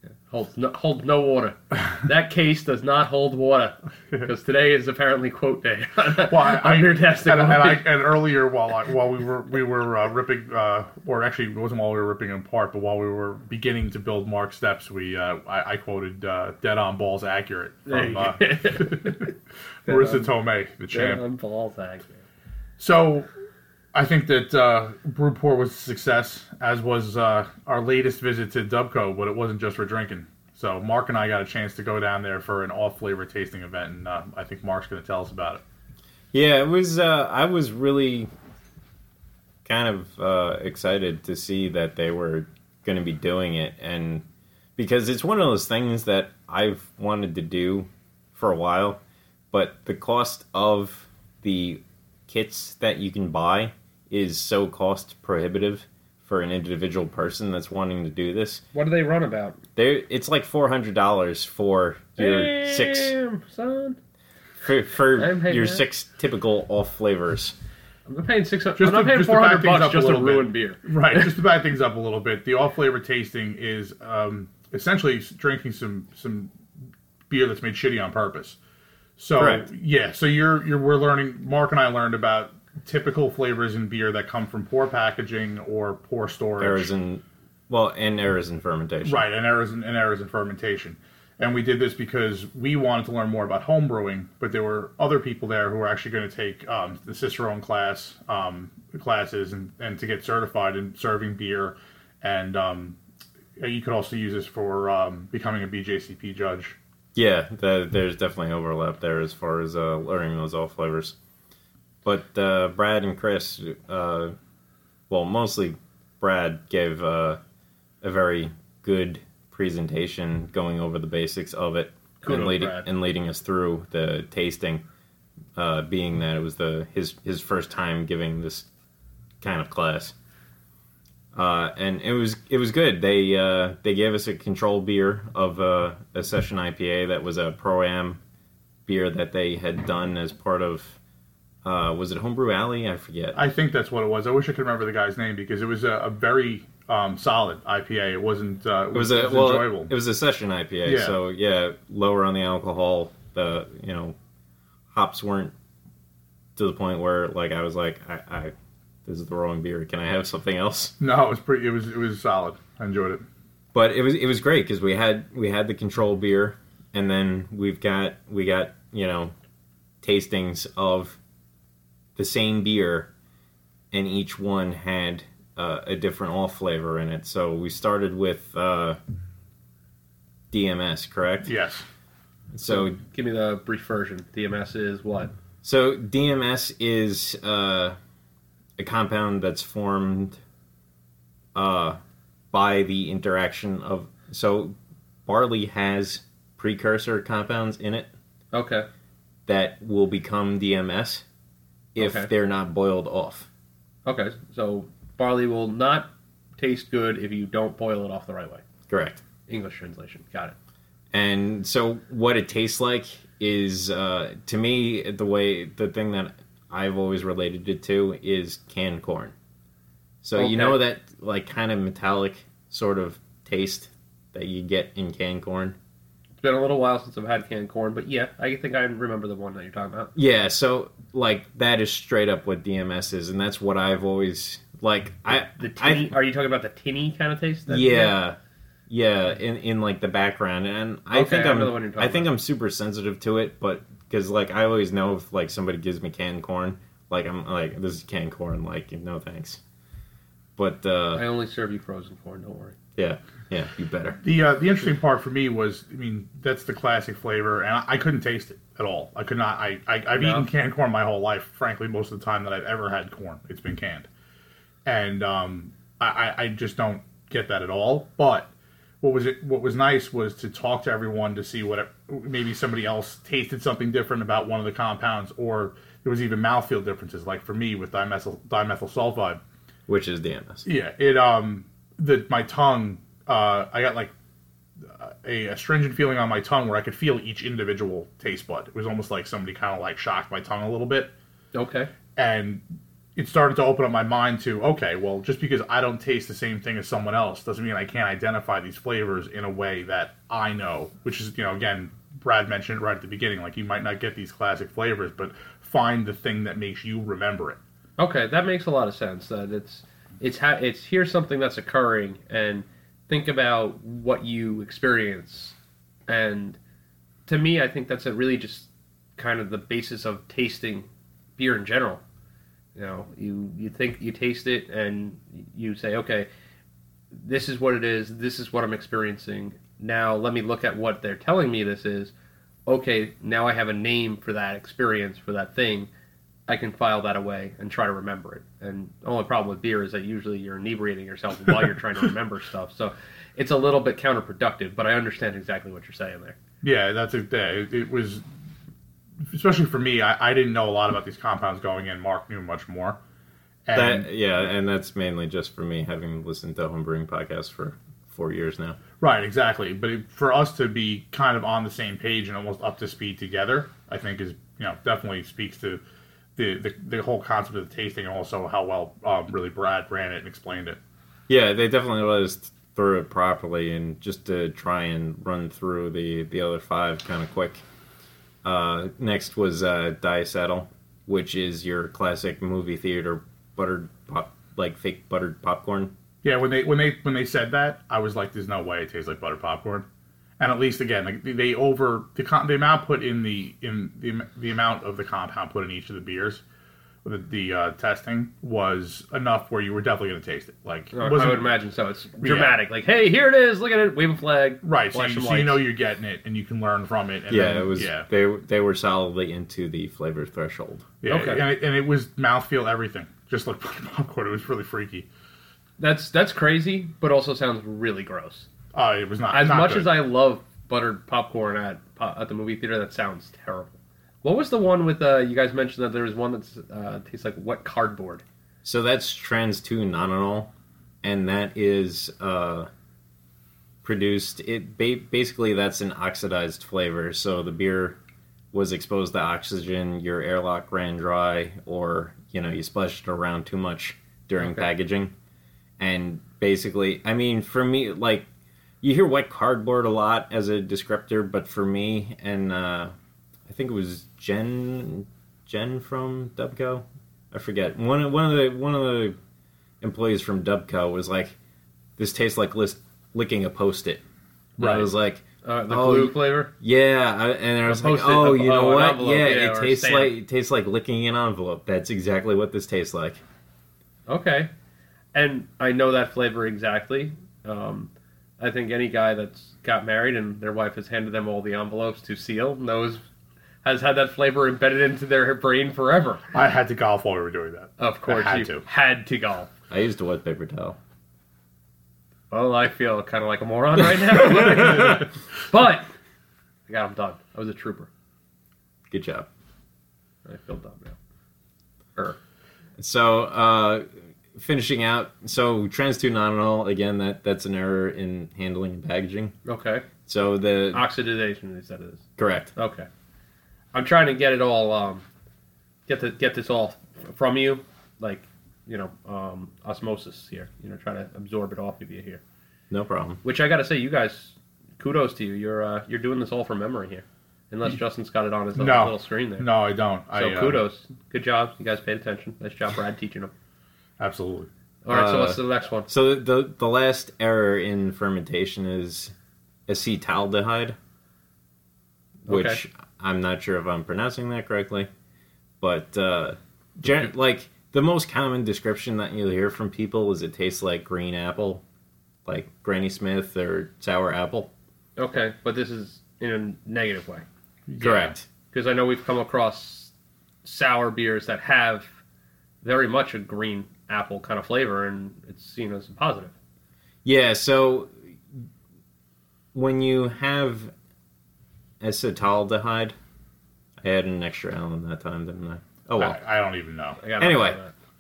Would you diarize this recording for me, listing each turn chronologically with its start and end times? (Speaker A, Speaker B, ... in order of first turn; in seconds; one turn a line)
Speaker A: 0.3-7.9
Speaker B: 6.3-19.3
Speaker A: 17.9-19.3
Speaker B: 19.9-21.2
Speaker A: 19.9-20.3
Speaker A: 20.9-22.2
Speaker B: 22.8-23.3
Speaker B: 23.9-35.6
Speaker C: 36.3-38.3
Speaker C: 39.6-44.2
Speaker C: 44.8-49.0
Speaker C: 49.5-58.6
Speaker A: 58.7-59.6
Speaker C: 59.8-63.1
Speaker A: 62.2-64.0
Speaker C: 64.6-67.6
Speaker A: 65.2-65.8
Speaker A: 68.1-71.3
Speaker B: 68.8-76.5
Speaker B: 77.3-78.6
Speaker B: 79.2-86.9
Speaker C: 79.4-79.7
Speaker C: 86.6-89.2
Speaker B: 89.0-103.0
Speaker B: 103.6-106.8
Speaker C: 107.2-111.2
Speaker C: 112.0-114.3
Speaker C: 115.1-117.4
Speaker C: 118.0-124.8
Speaker A: 122.2-122.9
Speaker C: 125.5-128.7
Speaker C: 129.4-130.1
Speaker C: 131.3-138.2
Speaker C: 138.9-141.0
Speaker C: 141.6-143.4
Speaker B: 143.3-149.9
Speaker C: 148.9-154.2
Speaker B: 150.8-151.2
Speaker C: 154.9-155.5
Speaker C: 156.6-158.5
Speaker C: 159.1-160.9
Speaker B: 161.0-163.2
Speaker C: 163.7-169.3
Speaker C: 170.0-171.2
Speaker C: 172.2-173.1
Speaker C: 173.9-179.0
Speaker C: 180.5-181.5
Speaker B: 181.4-181.8
Speaker C: 182.5-183.0
Speaker A: 182.7-185.3
Speaker C: 185.6-188.0
Speaker C: 188.8-190.4
Speaker C: 191.5-192.0
Speaker C: 192.5-198.1
Speaker A: 198.5-198.9
Speaker C: 199.5-201.2
Speaker C: 201.9-203.5
Speaker A: 202.0-202.3
Speaker A: 204.1-208.6
Speaker C: 208.9-209.2
Speaker A: 209.5-210.6
Speaker C: 211.1-219.3
Speaker C: 220.2-225.8
Speaker A: 220.4-220.8
Speaker A: 226.4-230.1
Speaker C: 230.2-236.2
Speaker A: 235.3-238.2
Speaker C: 237.7-238.4
Speaker C: 238.9-249.6
Speaker A: 241.1-242.3
Speaker C: 250.6-251.2
Speaker A: 251.2-252.8
Speaker C: 253.0-254.2
Speaker B: 254.2-264.1
Speaker A: 260.2-260.5
Speaker B: 264.9-268.5
Speaker B: 269.0-279.4
Speaker C: 279.9-280.7
Speaker B: 280.7-284.1
Speaker B: 284.8-291.1
Speaker A: 291.5-291.9
Speaker B: 292.2-292.6
Speaker B: 293.2-307.6
Speaker A: 308.0-315.6
Speaker A: 316.1-316.6
Speaker A: 317.3-322.0
Speaker A: 322.8-326.3
Speaker A: 327.1-332.1
Speaker A: 332.7-335.9
Speaker A: 336.5-346.4
Speaker B: 346.6-348.2
Speaker B: 349.3-353.0
Speaker B: 353.7-354.1
Speaker C: 353.7-358.8
Speaker B: 359.0-365.8
Speaker B: 366.4-370.8
Speaker C: 371.3-377.6
Speaker C: 378.4-385.9
Speaker B: 386.2-389.9
Speaker B: 390.4-396.4
Speaker B: 397.1-401.5
Speaker A: 400.9-405.6
Speaker B: 402.2-402.5
Speaker B: 404.6-408.1
Speaker C: 407.3-410.9
Speaker B: 411.0-415.1
Speaker A: 411.1-411.4
Speaker A: 415.8-418.5
Speaker B: 418.7-419.9
Speaker A: 419.3-423.7
Speaker A: 424.2-428.2
Speaker C: 428.6-430.5
Speaker C: 431.0-432.7
Speaker C: 433.8-438.0
Speaker C: 438.5-445.1
Speaker A: 444.4-444.7
Speaker C: 445.8-448.3
Speaker C: 448.8-452.9
Speaker C: 453.5-459.2
Speaker C: 459.8-461.4
Speaker C: 462.0-464.0
Speaker A: 464.6-464.9
Speaker C: 464.6-473.2
Speaker A: 465.4-466.5
Speaker A: 467.7-470.1
Speaker A: 474.1-474.5
Speaker A: 475.1-483.0
Speaker A: 483.6-486.2
Speaker B: 486.3-488.6
Speaker A: 487.8-489.5
Speaker C: 489.7-490.8
Speaker A: 492.3-495.9
Speaker C: 494.0-494.9
Speaker A: 496.7-497.9
Speaker C: 498.9-499.3
Speaker A: 500.2-501.0
Speaker C: 502.8-509.4
Speaker A: 509.5-509.9
Speaker C: 510.1-510.9
Speaker A: 510.7-512.0
Speaker C: 512.2-512.5
Speaker A: 512.5-512.9
Speaker A: 513.7-515.0
Speaker A: 515.9-522.2
Speaker C: 522.7-523.2
Speaker A: 523.2-529.5
Speaker B: 528.6-530.6
Speaker A: 530.1-533.3
Speaker B: 534.0-534.5
Speaker A: 534.8-535.9
Speaker C: 534.9-539.1
Speaker C: 539.7-540.8
Speaker C: 542.2-544.9
Speaker A: 542.3-542.6
Speaker C: 545.6-551.6
Speaker C: 552.3-554.5
Speaker A: 555.0-557.2
Speaker B: 557.7-558.1
Speaker C: 557.8-558.3
Speaker A: 557.9-559.9
Speaker A: 560.4-562.0
Speaker A: 562.6-566.3
Speaker C: 567.0-568.4
Speaker C: 569.5-570.7
Speaker C: 571.8-573.0
Speaker C: 573.8-576.2
Speaker B: 576.0-577.0
Speaker A: 577.0-577.7
Speaker C: 577.2-577.6